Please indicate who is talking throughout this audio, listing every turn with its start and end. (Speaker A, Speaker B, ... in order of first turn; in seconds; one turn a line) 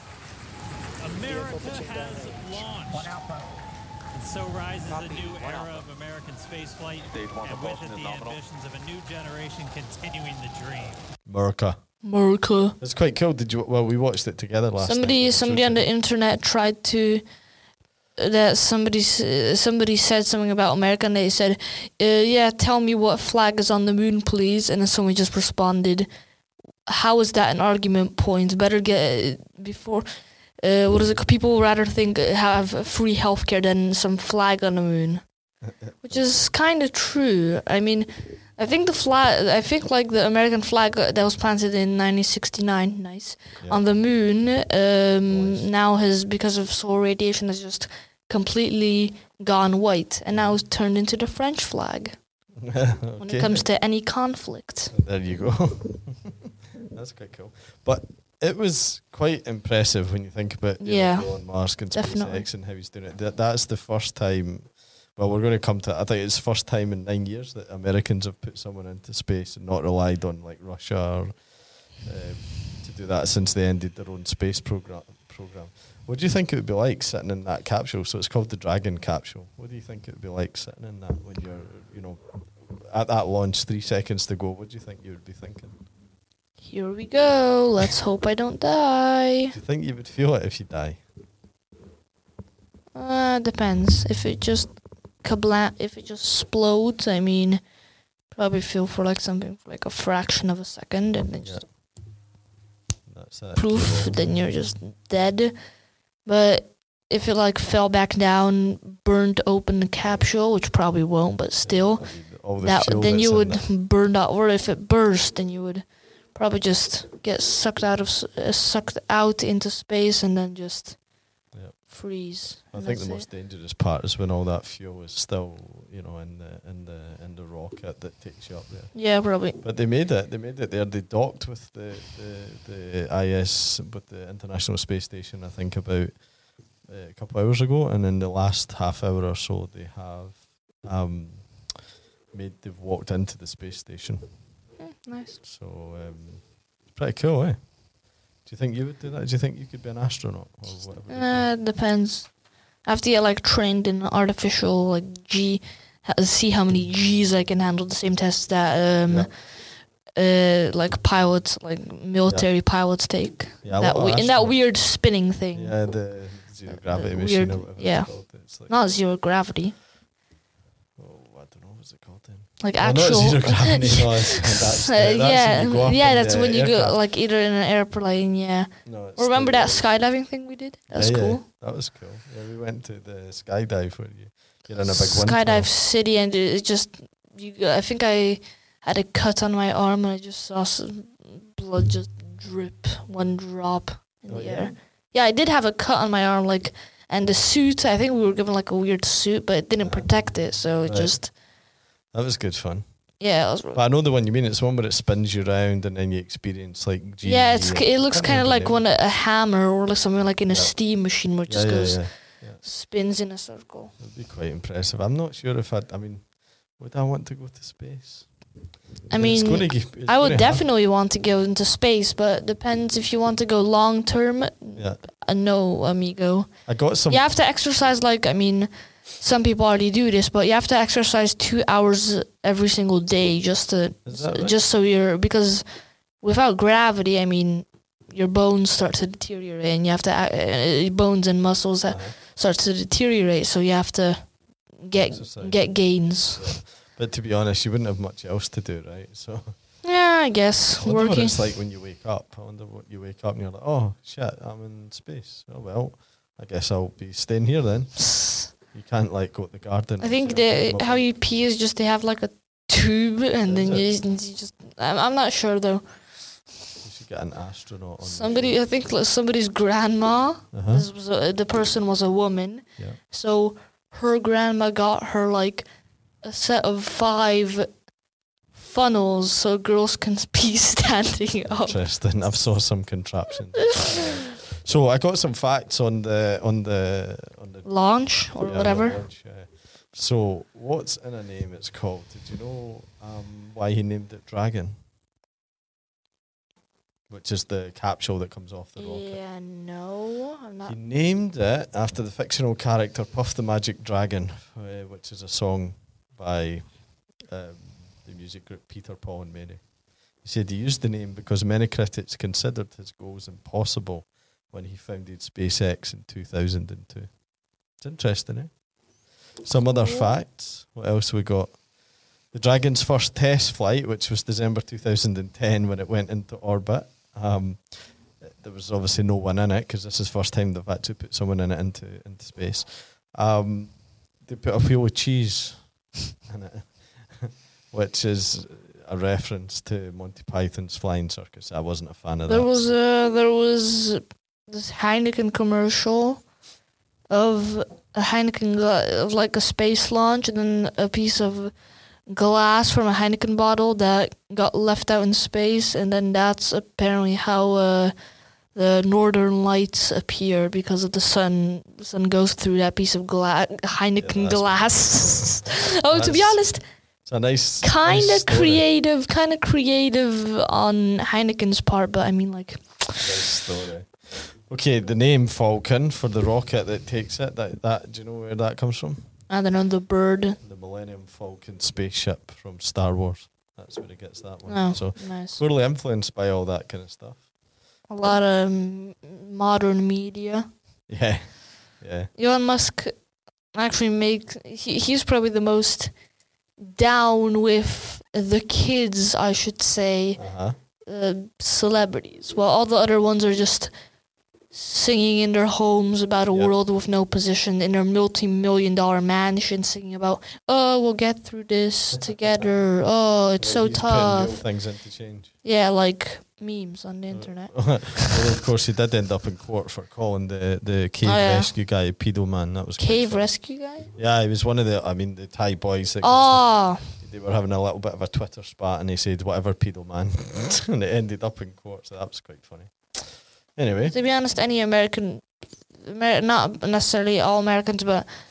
Speaker A: 1.0-3.2
Speaker A: 4.1-11.0
Speaker B: 11.3-11.8
Speaker C: 12.0-12.8
Speaker B: 12.8-15.8
Speaker C: 14.8-17.2
Speaker C: 18.2-26.1
Speaker C: 26.9-30.1
Speaker C: 30.6-35.2
Speaker B: 35.6-36.3
Speaker C: 36.0-52.1
Speaker B: 45.3-45.7
Speaker B: 52.6-53.6
Speaker C: 53.2-54.9
Speaker B: 54.9-71.4
Speaker C: 60.8-61.3
Speaker C: 61.9-62.5
Speaker B: 72.0-85.8
Speaker C: 86.6-89.6
Speaker B: 89.5-91.0
Speaker C: 93.0-97.6
Speaker C: 98.3-101.6
Speaker B: 103.1-104.3
Speaker C: 103.6-105.5
Speaker C: 106.2-112.1
Speaker B: 111.6-113.6
Speaker C: 112.6-121.0
Speaker C: 121.9-123.3
Speaker B: 122.7-129.0
Speaker C: 128.9-129.6
Speaker B: 129.6-136.2
Speaker B: 136.9-141.8
Speaker B: 142.3-144.3
Speaker C: 144.8-145.4
Speaker B: 145.4-147.6
Speaker B: 148.4-151.5
Speaker C: 151.1-152.3
Speaker C: 152.8-159.3
Speaker C: 160.2-165.8
Speaker B: 163.6-164.6
Speaker B: 165.5-168.7
Speaker C: 166.7-168.1
Speaker C: 168.7-169.8
Speaker B: 171.0-177.0
Speaker C: 172.6-181.4
Speaker B: 178.8-179.9
Speaker B: 180.9-185.7
Speaker C: 184.9-201.3
Speaker B: 194.3-194.8
Speaker B: 199.8-200.1
Speaker B: 200.8-201.2
Speaker B: 202.1-202.8
Speaker C: 203.2-203.8
Speaker B: 203.7-208.8
Speaker C: 207.2-212.0
Speaker B: 210.5-210.7
Speaker B: 211.5-212.6
Speaker C: 212.6-213.9
Speaker B: 214.0-218.3
Speaker C: 219.1-235.7
Speaker B: 219.1-220.6
Speaker B: 226.7-227.2
Speaker B: 234.1-234.6
Speaker C: 236.2-246.5
Speaker B: 241.9-242.2
Speaker B: 245.0-245.6
Speaker B: 246.3-249.5
Speaker C: 249.8-251.4
Speaker B: 250.8-261.1
Speaker C: 258.0-258.5
Speaker C: 260.0-265.8
Speaker B: 263.5-263.9
Speaker B: 266.8-268.6
Speaker C: 268.0-275.6
Speaker B: 270.5-270.9
Speaker C: 276.2-277.7
Speaker C: 278.5-281.8
Speaker B: 281.5-287.7
Speaker C: 283.7-284.0
Speaker C: 287.6-289.0
Speaker B: 288.3-294.8
Speaker B: 297.1-299.2
Speaker C: 298.8-300.8
Speaker B: 300.7-306.6
Speaker B: 307.3-309.6
Speaker B: 310.2-317.1
Speaker B: 317.8-318.5
Speaker B: 319.4-321.6
Speaker C: 319.6-320.2
Speaker B: 322.3-342.7
Speaker C: 342.3-346.2
Speaker C: 347.1-351.5
Speaker C: 352.1-357.9
Speaker C: 358.6-366.6
Speaker B: 364.0-365.4
Speaker B: 365.9-366.4
Speaker B: 367.1-368.6
Speaker C: 367.6-373.1
Speaker B: 373.0-379.1
Speaker C: 379.3-380.4
Speaker B: 380.4-387.3
Speaker C: 384.5-385.4
Speaker C: 387.9-390.5
Speaker B: 390.9-392.1
Speaker C: 392.2-392.9
Speaker C: 393.6-395.9
Speaker C: 396.6-400.2
Speaker B: 400.2-400.6
Speaker C: 400.9-403.7
Speaker C: 404.5-414.4
Speaker B: 412.0-412.4
Speaker B: 413.4-415.3
Speaker C: 415.4-418.2
Speaker B: 417.1-423.3
Speaker C: 421.0-421.5
Speaker C: 422.8-423.9
Speaker B: 423.9-433.9
Speaker C: 426.0-426.9
Speaker C: 433.9-435.3
Speaker C: 435.8-438.1